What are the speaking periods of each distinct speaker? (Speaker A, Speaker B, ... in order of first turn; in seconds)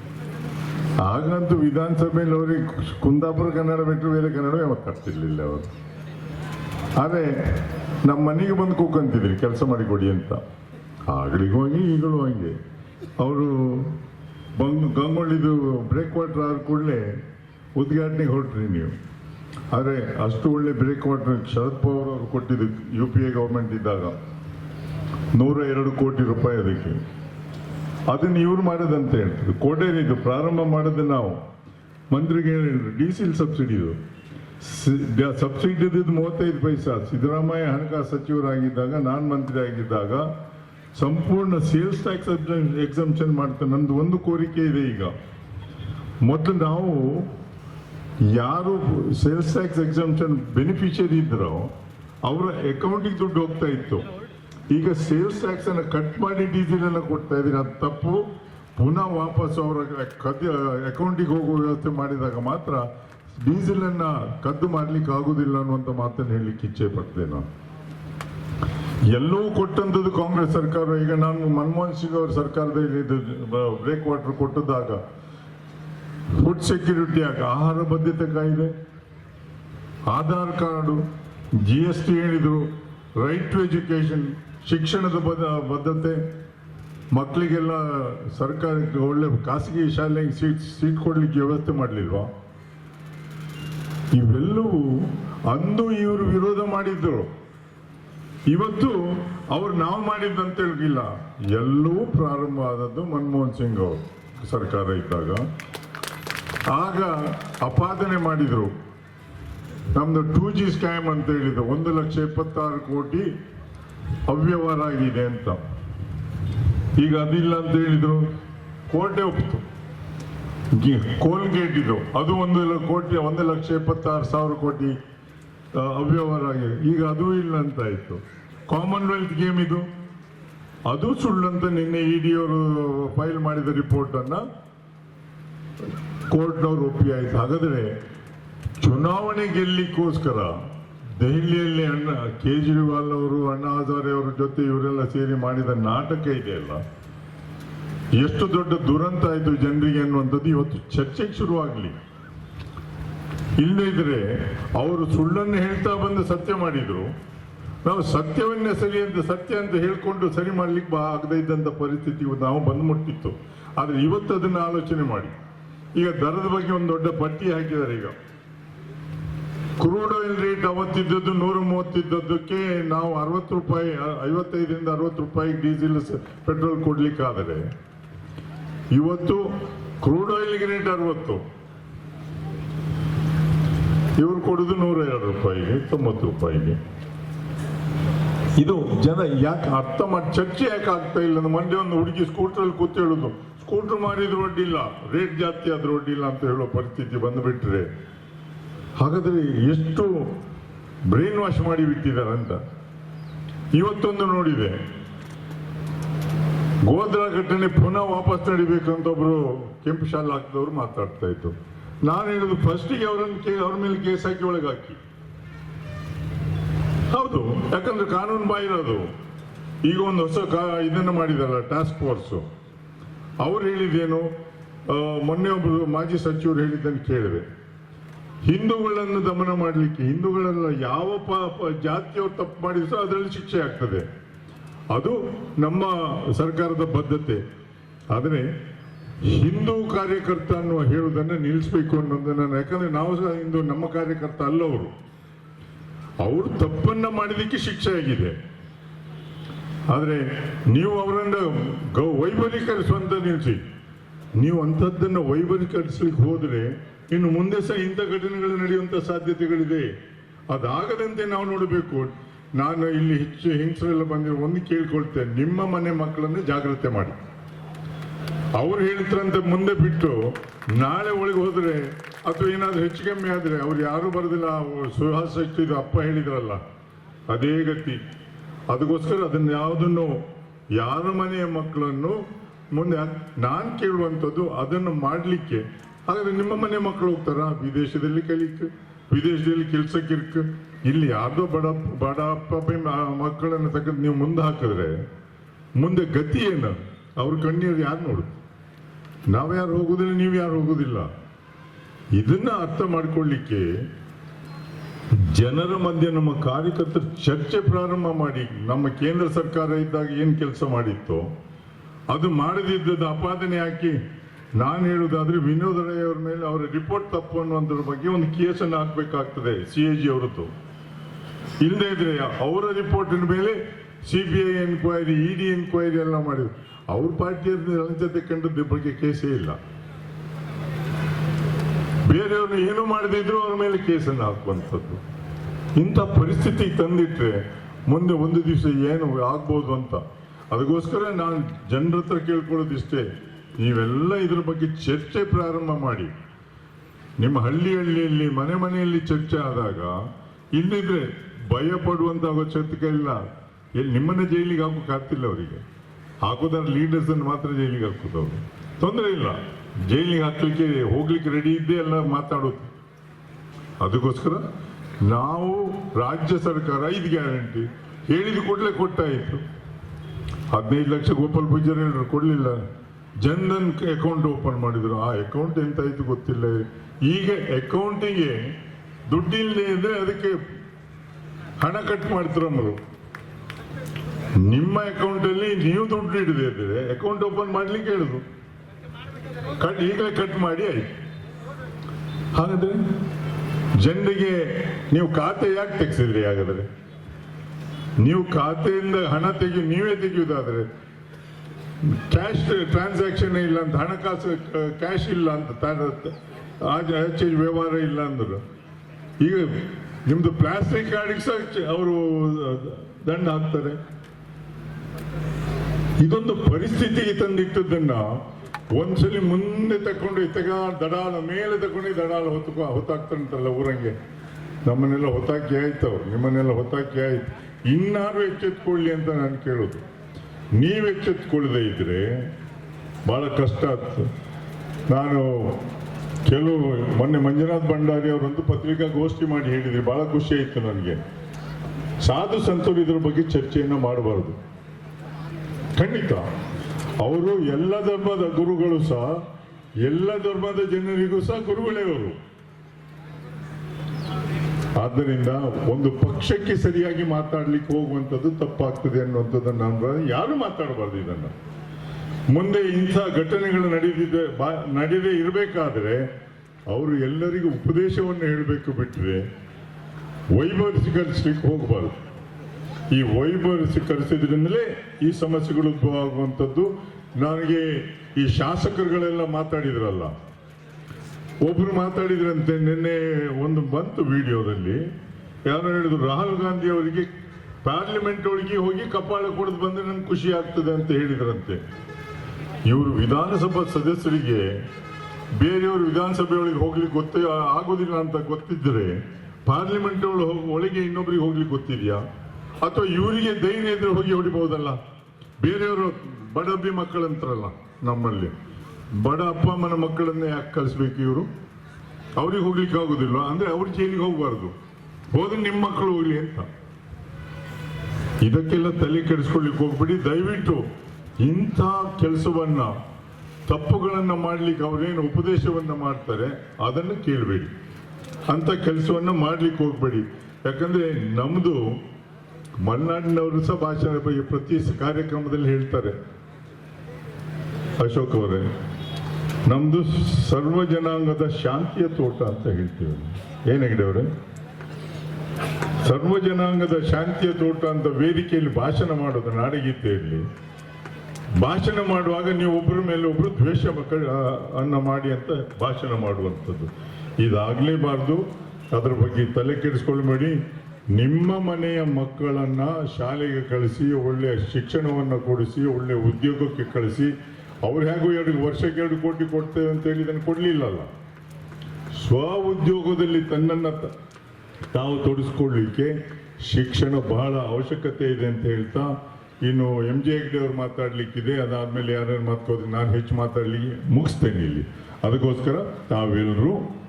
Speaker A: 1.0-5.7, 7.0-10.4, 11.1-12.6, 13.2-14.0, 14.6-17.1, 17.8-18.9, 19.7-24.2, 25.3-27.0, 28.1-31.4, 32.1-34.0, 34.6-40.3, 41.0-45.1, 46.2-47.3, 48.3-51.7, 52.2-54.1, 54.7-58.3, 58.8-67.5, 69.1-75.0, 76.3-78.7, 80.1-81.0, 81.6-86.3, 87.1-92.3, 94.1-97.3, 98.5-105.4, 106.7-108.7, 110.0-113.3, 114.3-115.6, 117.0-118.3, 118.9-119.6, 120.7-125.0, 125.7-129.9, 130.9-134.4, 136.3-137.9, 138.8-140.6, 141.2-146.8, 148.2-151.9, 153.6-157.1, 157.8-165.3, 166.0-168.2, 169.8-177.7, 178.9-179.5, 180.0-181.4, 184.2-186.8, 188.6-197.9, 199.0-200.3, 201.1-202.6, 203.7-204.8, 206.8-211.6, 212.1-215.0, 217.1-219.1, 219.8-222.4, 223.4-224.3, 224.9-227.4, 228.4-234.1, 234.9-237.4, 238.1-238.5, 239.2-244.9, 246.2-248.3, 249.9-253.6, 254.4-259.9, 260.5-267.2, 268.6-276.6, 277.3-278.0, 278.7-280.2, 280.8-282.2, 282.7-295.0, 295.8-298.4, 299.3-301.1, 302.1-303.8, 305.1-311.3, 312.1-314.0, 314.6-320.5, 321.6-329.6, 332.1-335.0, 335.8-346.1, 347.2-350.0, 350.5-353.2, 353.8-355.6, 356.2-362.7, 363.8-364.4, 365.0-369.4, 370.5-372.6, 373.2-378.5, 379.1-380.4, 381.6-382.8, 384.4-388.2, 389.6-390.9, 392.3-392.9, 393.8-396.7, 398.0-400.7, 401.8-408.4, 409.2-413.8, 416.0-418.2, 418.7-423.9, 424.6-429.8, 430.6-432.2, 433.1-434.1, 434.9-435.6, 436.2-441.0, 442.0-444.4, 445.8-446.3, 447.0-449.2, 449.8-452.2, 454.8-461.3, 462.3-466.1, 466.7-469.2, 470.3-471.9, 472.9-480.1, 481.4-484.9, 485.5-487.1, 487.6-491.6, 492.7-494.6, 495.4-502.0, 502.6-504.8, 505.4-508.3, 508.9-511.3, 512.2-514.6, 515.1-516.5, 518.2-520.6, 521.2-522.8, 523.5-527.5, 528.3-531.8, 532.6-536.0, 537.8-538.5, 539.5-544.1, 545.8-550.2, 551.4-560.4, 560.9-567.1, 567.6-570.9, 571.9-573.9, 574.7-586.7